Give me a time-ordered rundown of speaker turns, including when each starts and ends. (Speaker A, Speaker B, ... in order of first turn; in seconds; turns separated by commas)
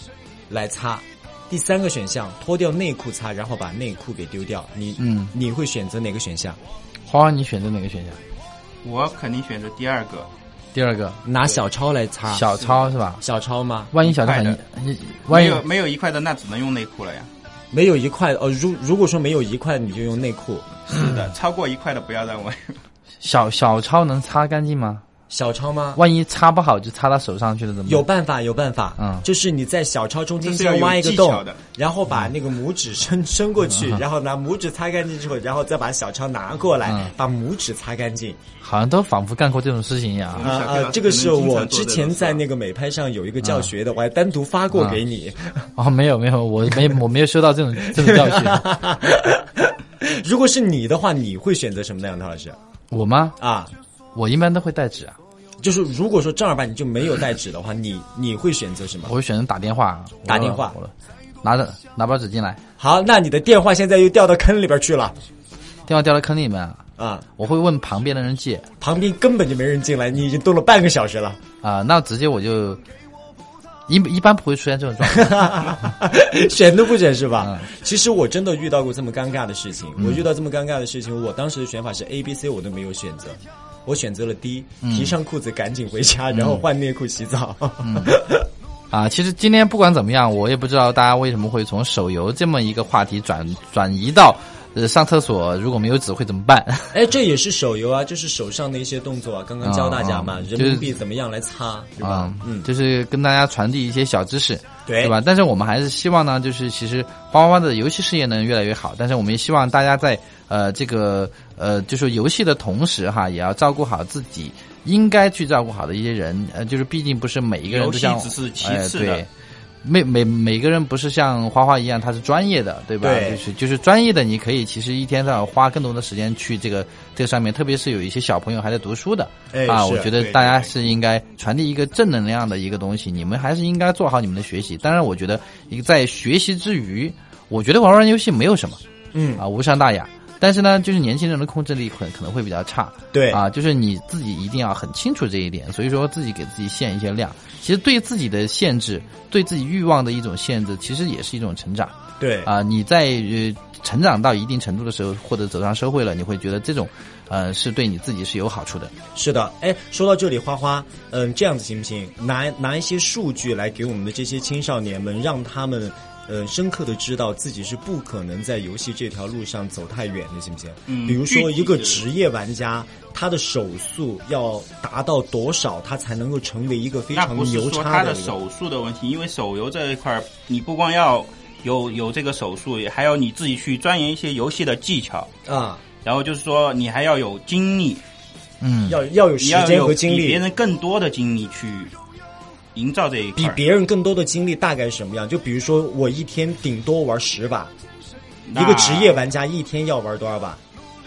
Speaker A: 0.5-6.6, Speaker B: 5.0-5.3, Speaker B: 7.1-8.2, Speaker C: 8.8-10.3, Speaker B: 10.7-11.2, Speaker A: 11.2-12.5, Speaker B: 12.3-13.2, Speaker C: 12.6-12.9, Speaker A: 13.2-13.9, Speaker B: 13.9-15.6, Speaker C: 14.0-14.6, Speaker C: 15.3-17.3, Speaker A: 17.7-21.1, Speaker C: 20.9-22.8, Speaker B: 23.2-25.0, Speaker A: 25.3-26.0, Speaker B: 26.0-28.1, Speaker A: 27.9-38.4, Speaker B: 29.0-29.2, Speaker C: 30.4-31.6, Speaker B: 33.7-34.0, Speaker B: 36.9-37.1, Speaker B: 38.6-40.5, Speaker C: 40.4-42.4, Speaker A: 40.4-45.7, Speaker B: 43.4-43.7, Speaker B: 45.8-48.7, Speaker A: 47.9-52.6, Speaker B: 52.9-53.4, Speaker A: 53.4-53.7, Speaker B: 54.1-55.2, Speaker A: 55.6-59.1, Speaker B: 59.1-60.9, Speaker A: 60.3-60.8, Speaker B: 61.4-62.6, Speaker A: 62.8-65.2, Speaker B: 65.9-66.8, Speaker A: 67.0-67.3, Speaker B: 67.4-68.7, Speaker A: 68.8-71.4, Speaker B: 71.6-72.8, Speaker B: 73.9-75.8, Speaker A: 75.0-88.5, Speaker B: 77.4-77.7, Speaker B: 80.0-80.2, Speaker B: 84.8-85.2, Speaker B: 86.3-86.6, Speaker B: 87.8-88.2, Speaker B: 88.9-97.0, Speaker A: 96.9-102.7, Speaker B: 99.6-100.9, Speaker B: 102.0-119.3, Speaker A: 104.9-105.2, Speaker C: 117.7-119.2, Speaker B: 119.8-138.8, Speaker A: 123.0-123.4, Speaker A: 129.5-130.3, Speaker C: 130.3-130.7, Speaker A: 139.1-139.4, Speaker B: 139.4-158.9, Speaker A: 143.1-143.4, Speaker A: 152.2-152.5, Speaker A: 159.2-178.3, Speaker C: 170.9-172.1, Speaker C: 177.1-185.3, Speaker A: 185.5-185.8, Speaker C: 186.0-188.0, Speaker B: 188.6-189.0, Speaker A: 188.9-190.4, Speaker C: 189.4-191.9, Speaker C: 192.8-193.6, Speaker A: 193.4-197.7, Speaker C: 198.5-199.2, Speaker A: 198.5-200.6